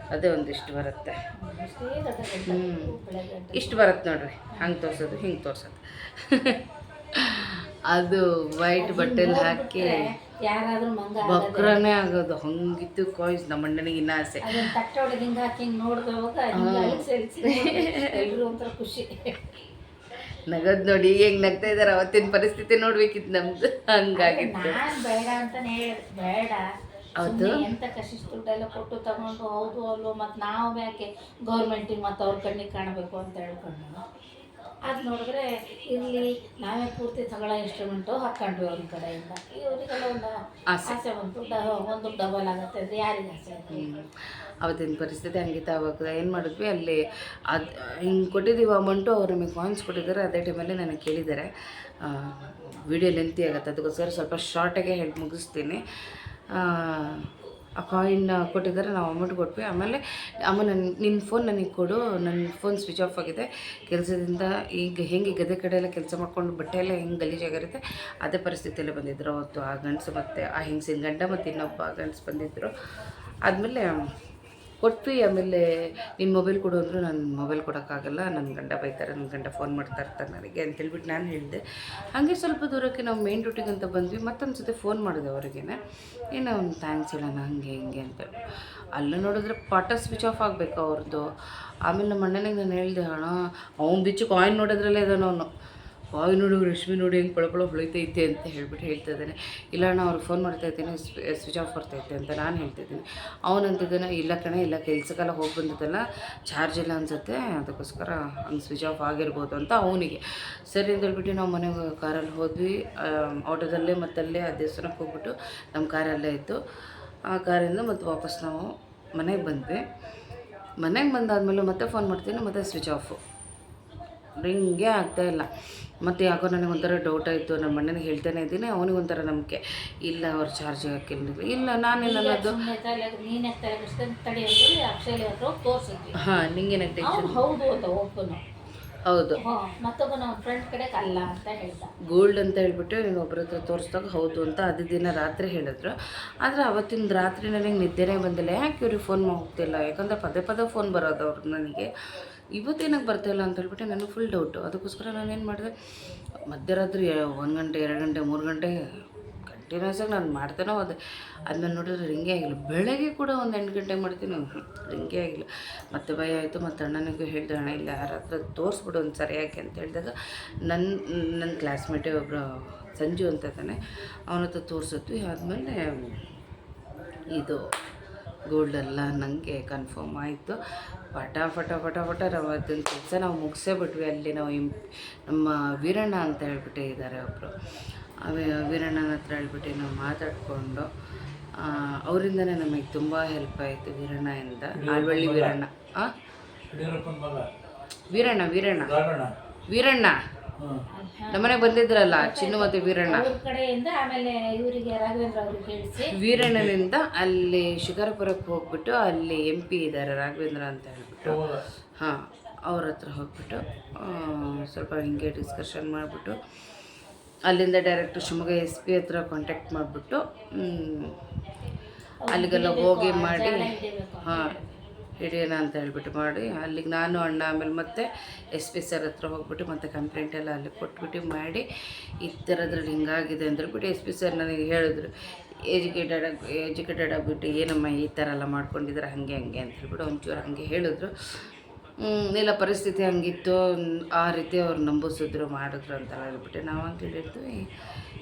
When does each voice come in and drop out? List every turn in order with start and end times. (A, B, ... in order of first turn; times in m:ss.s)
0:00.1-0:01.2 A
0:01.3-0:03.9 B
0:02.4-0:03.0 A
0:03.5-0:06.6 A
0:04.5-0:04.8 B
0:07.1-0:10.1 A
0:08.8-0:11.8 B
0:11.2-0:14.8 A
0:14.4-0:19.5 B
0:16.5-0:18.3 A
0:20.5-0:25.0 A
0:24.2-0:26.7 B
0:27.2-0:27.7 A
0:27.2-0:34.0 B
0:34.9-0:43.9 B
0:40.7-0:41.0 A
0:43.7-0:55.8 A
0:56.5-1:12.7 A
1:13.4-1:14.1 A
1:14.8-1:15.6 A
1:16.2-1:21.6 A
1:22.1-1:25.8 A
1:26.3-1:28.3 A
1:28.9-1:31.3 A
1:31.8-1:35.5 A
1:36.1-1:56.6 A
1:57.3-1:59.8 A
2:00.8-2:03.2 A
2:04.4-2:05.5 A
2:06.0-2:12.6 A
2:11.9-2:16.2 B
2:16.2-2:17.4 A
2:17.0-2:18.4 B
2:19.0-2:19.4 A
2:19.4-2:21.9 B
2:22.0-2:31.9 A
2:32.5-2:35.7 A
2:36.5-2:38.8 A
2:39.5-2:50.1 A
2:50.6-2:56.2 A
2:57.3-2:57.6 A
2:58.5-3:00.6 A
3:01.1-3:07.6 A
3:08.2-3:10.9 A
3:11.5-3:16.1 A
3:14.7-3:15.6 C
3:16.7-3:17.5 C
3:18.1-3:19.0 A
3:18.8-3:19.3 C
3:19.7-3:20.2 A
3:20.6-3:20.8 C
3:20.9-3:26.2 B
3:21.3-3:23.3 A
3:26.0-3:31.4 A
3:26.3-3:26.7 C
3:31.2-3:31.6 C
3:32.0-3:36.4 A
3:37.4-3:41.2 A
3:42.2-3:44.7 B
3:42.3-3:44.5 A
3:45.2-3:51.6 A
3:52.2-3:55.1 A
3:55.6-4:01.4 A
4:02.0-4:07.7 A